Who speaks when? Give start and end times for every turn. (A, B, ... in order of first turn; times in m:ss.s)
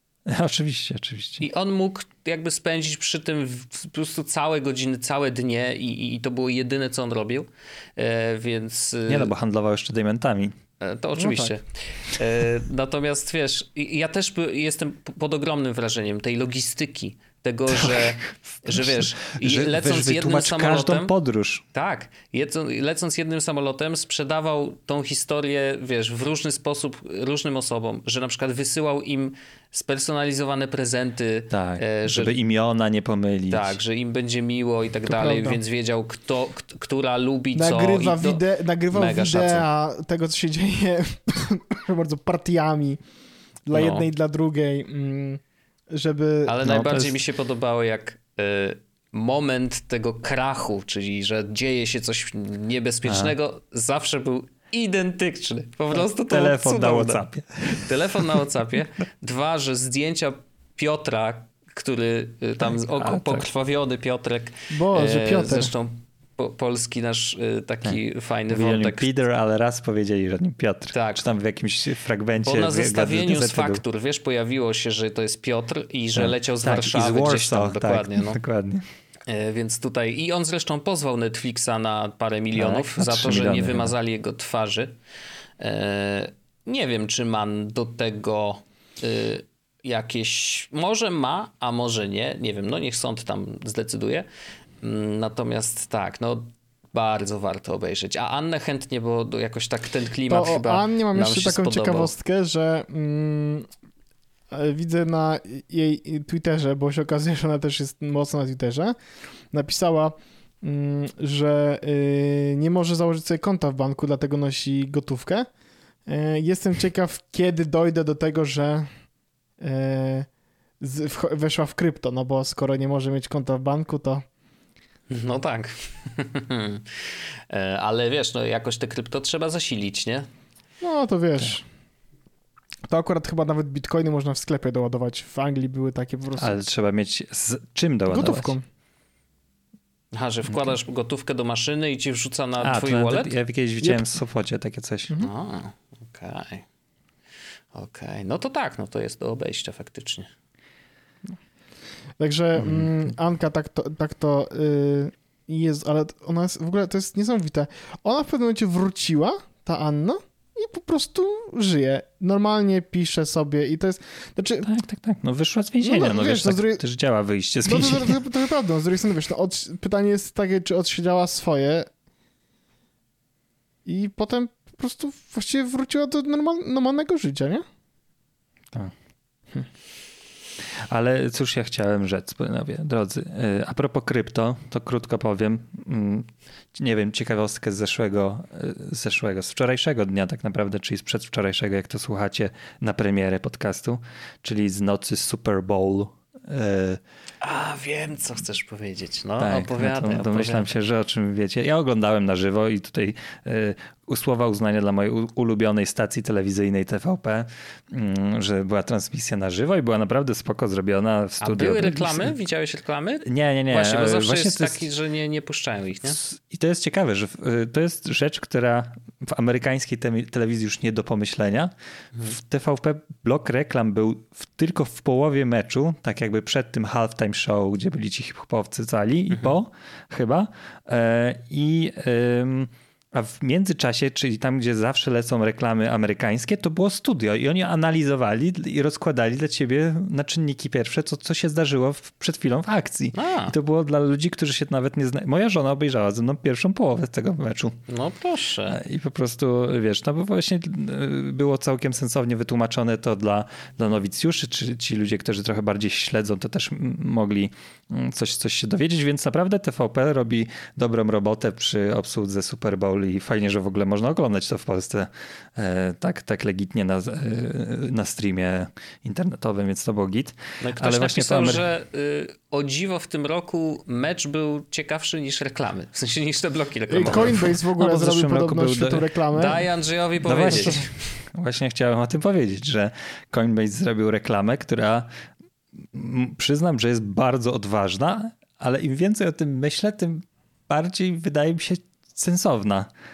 0:00.3-0:01.4 A
0:01.4-0:09.3 B
0:09.1-0:10.6 A
0:10.8-0:21.1 B
0:11.2-0:11.6 C
0:17.7-0:21.6 A
0:21.7-0:32.3 B
0:31.5-0:33.8 A
0:33.5-0:39.6 B
0:35.1-0:35.6 C
0:37.5-0:43.0 C
0:43.7-0:47.2 C
0:43.7-0:44.0 B
0:46.5-1:09.1 B
0:53.0-0:53.3 A
0:56.0-0:58.4 A
1:02.6-1:03.4 A
1:04.7-1:05.7 C
1:07.8-1:13.8 A
1:10.9-1:11.4 B
1:12.4-1:18.4 B
1:16.1-1:18.8 A
1:19.3-1:24.9 B
1:22.5-1:23.9 A
1:25.6-1:34.3 B
1:34.8-1:42.1 B
1:40.3-1:43.7 C
1:44.5-1:49.0 C
1:49.5-1:55.5 C
1:56.1-1:58.9 C
1:59.6-2:00.3 C
2:00.8-2:04.2 C
2:05.1-2:10.3 B
2:10.8-2:11.6 C
2:12.9-2:16.6 C
2:16.4-2:18.5 A
2:18.1-2:18.6 C
2:20.1-2:23.3 B
2:22.6-2:25.1 A
2:25.2-2:26.6 B
2:27.7-2:30.3 B
2:32.2-2:44.7 C
2:32.6-2:32.9 A
2:44.6-2:48.2 A
2:45.8-2:46.8 C
2:47.6-2:51.9 C
2:53.8-2:57.6 C
3:00.7-3:17.0 A
3:17.4-3:20.7 B
3:19.4-3:32.4 A
3:31.4-3:36.2 B
3:33.2-3:34.8 A
3:36.0-4:07.8 A
4:03.1-4:03.5 B
4:07.9-4:08.8 B
4:08.7-4:31.6 A
4:30.6-4:37.4 B
4:36.9-4:39.6 C
4:37.0-4:39.1 A
4:39.3-4:40.9 B
4:40.2-4:45.1 A
4:45.8-4:52.9 A